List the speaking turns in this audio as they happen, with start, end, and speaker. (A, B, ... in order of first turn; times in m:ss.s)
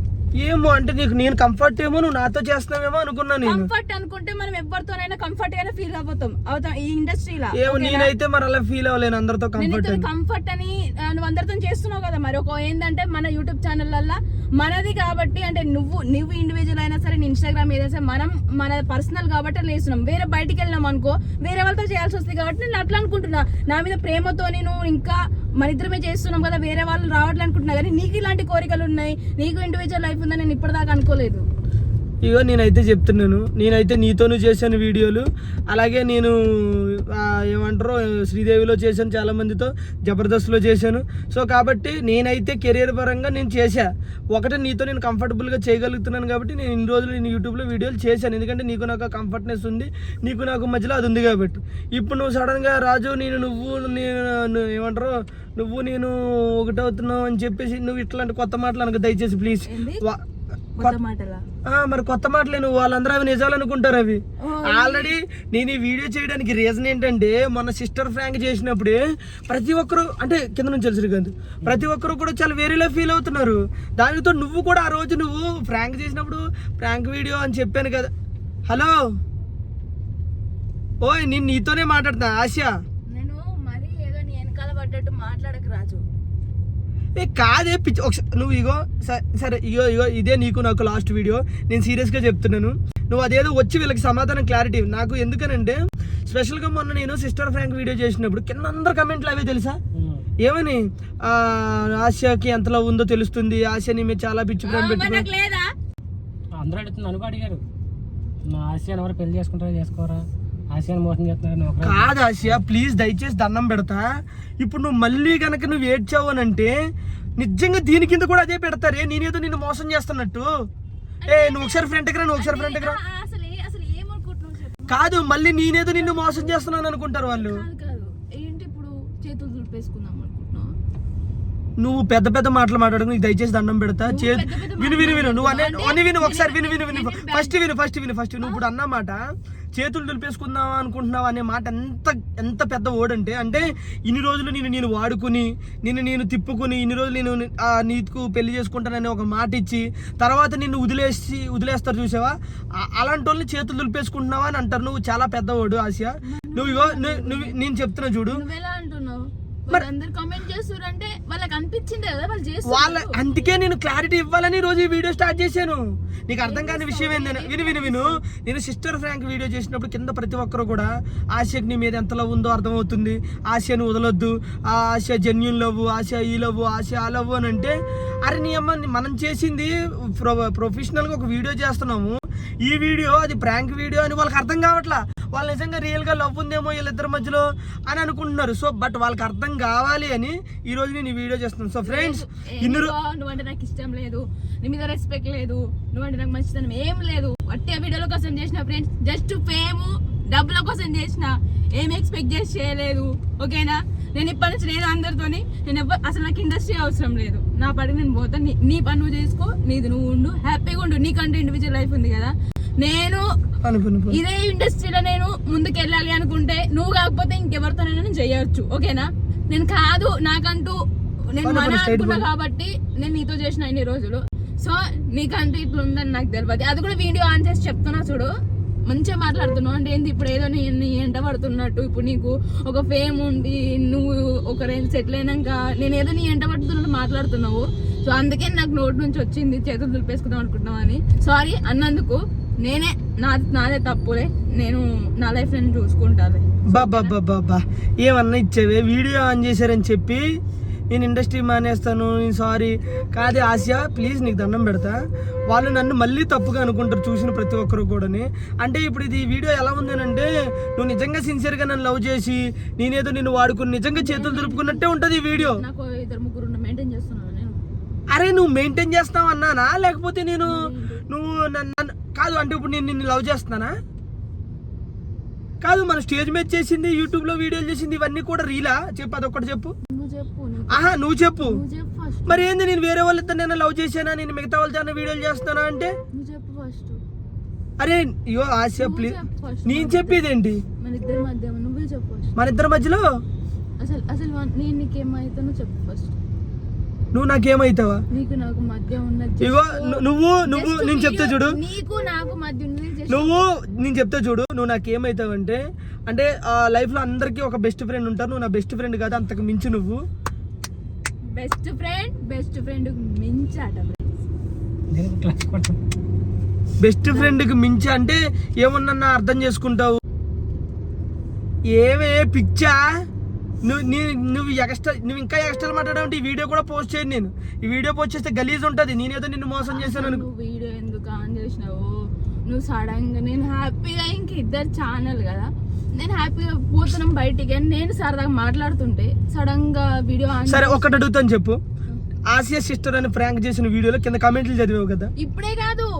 0:00.4-0:03.7 A
0:03.4-0:08.1 B
0:07.5-0:10.0 A
0:09.6-0:31.4 B
0:32.2-1:00.2 A
0:59.7-1:00.0 B
1:00.8-1:01.4 B
1:01.7-1:18.1 A
1:04.4-1:05.1 B
1:18.7-1:19.0 A
1:21.0-1:22.7 A
1:23.1-1:26.0 B
1:27.2-1:39.8 A
1:39.9-1:40.3 C
1:40.4-1:45.3 A
1:44.6-1:45.7 B
1:46.6-1:47.6 C
1:48.5-1:52.6 C
1:51.8-1:54.1 A
1:54.6-1:56.7 A
1:57.4-2:00.5 A
2:01.2-2:05.0 B
2:01.3-2:03.0 A
2:04.9-2:07.6 A
2:06.0-2:06.5 B
2:07.3-2:10.7 B
2:11.8-2:19.2 A
2:14.1-2:17.5 B
2:19.7-2:38.4 A
2:36.2-2:37.6 B
2:38.3-2:43.3 B
2:42.7-2:57.7 A
2:46.4-2:48.2 B
2:58.2-3:12.9 A
3:11.8-3:33.2 B
3:33.6-3:34.2 A
3:34.1-3:40.8 B
3:41.3-3:48.3 B
3:41.4-3:42.2 A
3:48.9-4:07.1 B
4:06.7-4:10.2 A
4:10.9-4:15.0 A
4:15.5-4:25.6 A
4:23.9-4:27.6 B
4:28.1-4:33.7 A
4:30.4-4:31.0 B
4:35.6-4:39.7 A
4:39.9-4:42.5 B
4:40.7-4:41.6 A
4:42.3-4:45.9 A
4:46.1-4:47.0 B
4:47.8-4:50.6 A
4:48.8-4:50.2 B
4:50.8-4:52.3 B
4:52.4-4:53.0 A
4:53.8-4:56.1 B
4:57.1-4:58.0 A
4:58.1-5:03.4 B
4:59.4-5:01.6 A
5:03.1-5:10.0 A
5:11.3-5:14.1 B
5:14.9-5:15.8 C
5:16.8-5:20.0 A
5:17.1-5:17.4 B
5:21.7-5:23.0 A
5:23.6-5:30.2 A
5:29.6-5:41.0 B
5:40.5-5:41.6 A
5:42.3-5:45.1 A
5:45.2-5:45.9 B